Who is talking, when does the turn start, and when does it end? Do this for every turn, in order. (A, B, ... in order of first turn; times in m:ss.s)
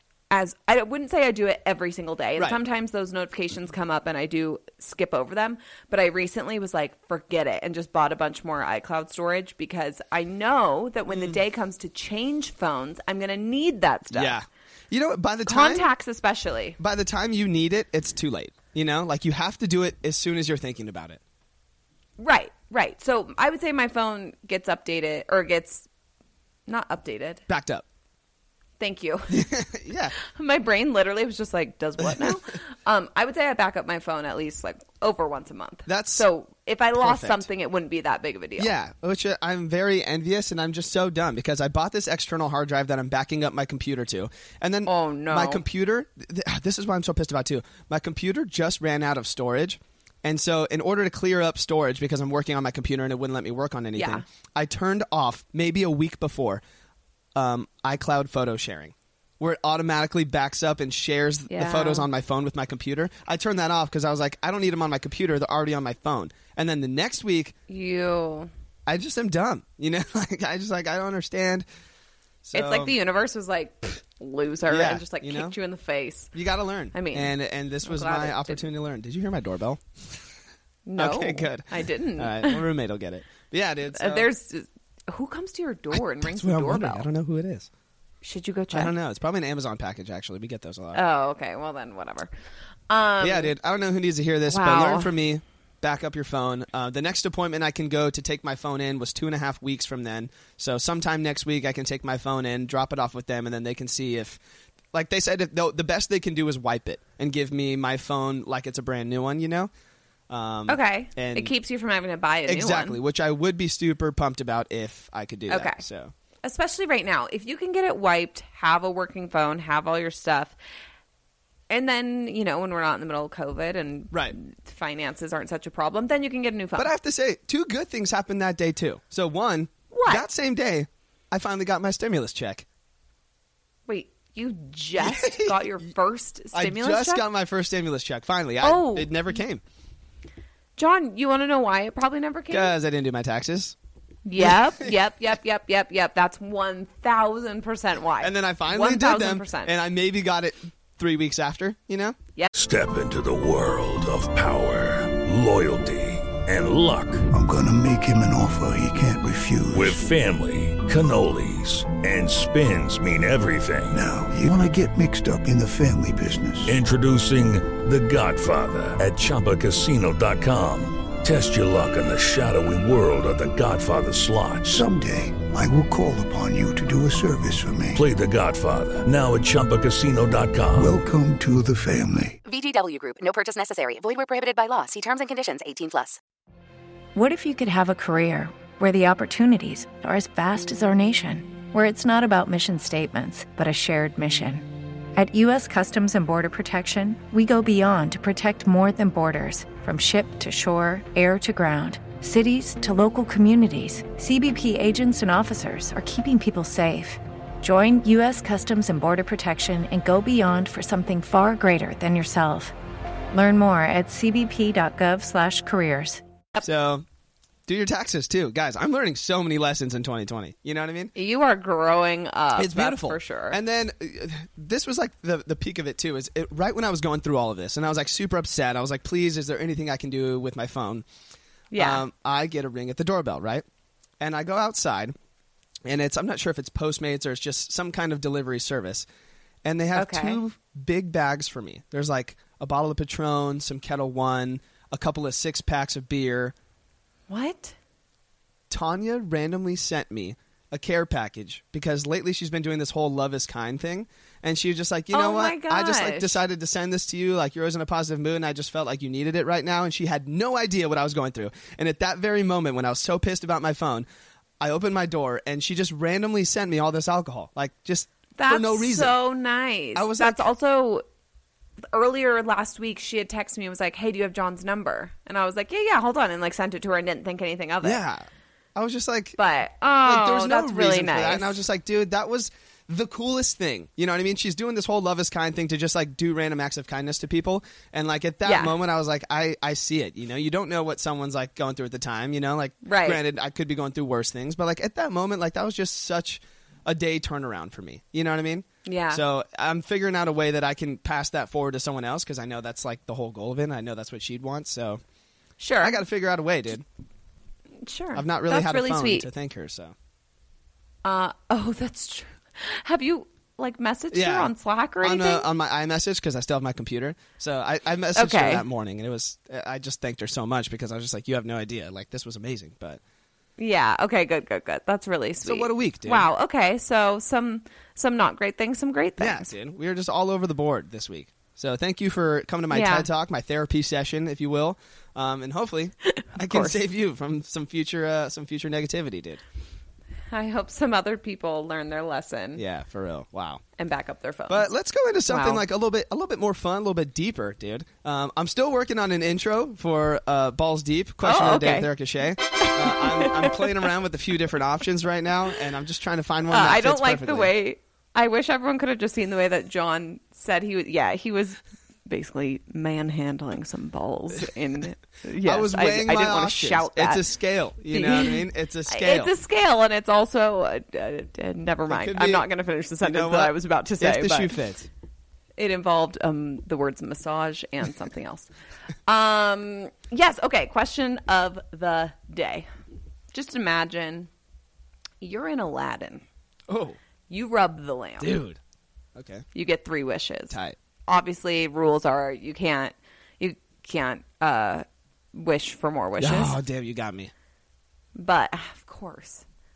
0:00.3-0:14.4 A
0:11.1-0:11.4 B
0:14.1-0:15.9 B
0:15.5-0:16.8 A
0:16.8-0:21.2 B
0:22.2-0:25.9 A
0:26.7-0:27.4 A
0:27.5-0:27.8 B
0:28.8-0:29.5 A
0:29.3-0:30.1 B
0:30.2-0:38.7 A
0:32.0-0:32.4 B
0:35.9-0:36.3 B
0:37.0-0:37.5 B
0:38.6-0:56.6 B
0:44.9-0:45.6 A
0:54.0-0:54.2 A
0:57.4-1:07.6 B
1:01.5-1:02.1 A
1:07.7-1:08.5 A
1:08.9-1:11.6 B
1:12.4-1:13.0 B
1:12.5-1:16.3 A
1:14.7-1:15.6 B
1:16.3-1:20.2 B
1:16.9-1:18.7 A
1:20.9-1:22.7 A
1:21.0-1:24.3 B
1:23.9-1:27.1 A
1:25.9-1:27.7 B
1:28.2-1:28.9 A
1:28.7-1:31.0 B
1:30.9-1:32.3 A
1:32.9-1:33.5 A
1:33.2-1:44.4 B
1:34.5-1:35.1 A
1:44.9-1:49.7 B
1:50.3-1:51.5 B
1:50.7-1:53.0 A
1:52.5-1:56.1 B
1:55.5-1:55.8 A
1:56.4-2:00.6 A
2:01.7-2:06.9 A
2:06.8-2:12.7 B
2:09.9-2:10.3 A
2:13.9-2:17.2 A
2:15.0-2:15.6 B
2:16.5-2:19.6 B
2:18.6-2:19.1 A
2:20.8-2:22.7 A
2:22.5-2:23.8 B
2:24.3-2:29.7 A
2:24.4-2:25.0 B
2:28.2-2:32.2 B
2:32.5-2:37.3 C
2:37.3-2:40.0 D
2:39.7-2:44.0 C
2:43.9-2:46.8 D
2:46.7-2:54.9 C
2:54.7-2:58.0 D
2:57.9-3:01.0 C
3:00.8-3:02.4 D
3:02.4-3:06.2 E
3:07.2-3:32.7 F
3:33.3-3:36.2 F
3:36.6-3:37.0 B
3:37.7-3:41.1 B
3:41.2-3:43.6 A
3:42.6-3:51.0 B
3:51.7-3:52.0 A
3:51.7-3:53.6 B
3:54.2-3:55.2 B
3:55.9-3:59.1 B
3:59.6-4:06.5 B
4:00.0-4:00.4 A
4:07.3-4:07.8 A
4:08.7-4:24.1 B
4:15.1-4:16.4 A
4:24.6-4:29.2 B
4:28.4-4:31.0 A
4:30.0-4:30.5 B
4:31.9-4:38.0 A
4:37.8-4:39.4 B
4:39.4-4:41.6 A
4:40.0-5:05.0 B
4:48.4-4:48.8 A
4:52.8-4:53.2 A
4:58.8-4:59.2 A
5:05.6-5:06.0 A
5:05.8-5:06.8 B
5:07.8-5:09.3 A
5:08.1-5:09.9 B
5:11.0-5:15.5 A
5:14.1-5:23.0 B
5:18.2-5:18.6 A
5:23.6-5:29.5 A
5:25.4-5:26.3 B
5:29.2-5:39.4 B
5:32.7-5:33.1 A
5:36.2-5:36.8 A
5:40.3-5:42.6 A
5:42.6-5:43.6 B
5:43.8-5:44.7 A
5:44.5-5:57.5 B
5:45.3-5:45.6 A
5:51.2-5:51.9 A
5:52.5-5:53.9 A
5:56.5-6:07.3 A
6:05.4-6:09.3 B
6:07.9-6:14.6 A
6:11.9-6:12.5 B
6:13.0-6:14.9 B
6:15.6-6:18.5 A
6:19.1-6:22.7 A
6:23.3-6:24.3 A
6:25.2-6:26.2 A
6:26.7-6:27.0 B
6:27.3-6:28.4 A
6:28.2-6:28.6 B
6:29.2-6:29.4 B
6:29.5-6:36.6 A
6:30.5-6:30.8 B
6:36.2-6:37.3 B
6:38.2-6:39.4 A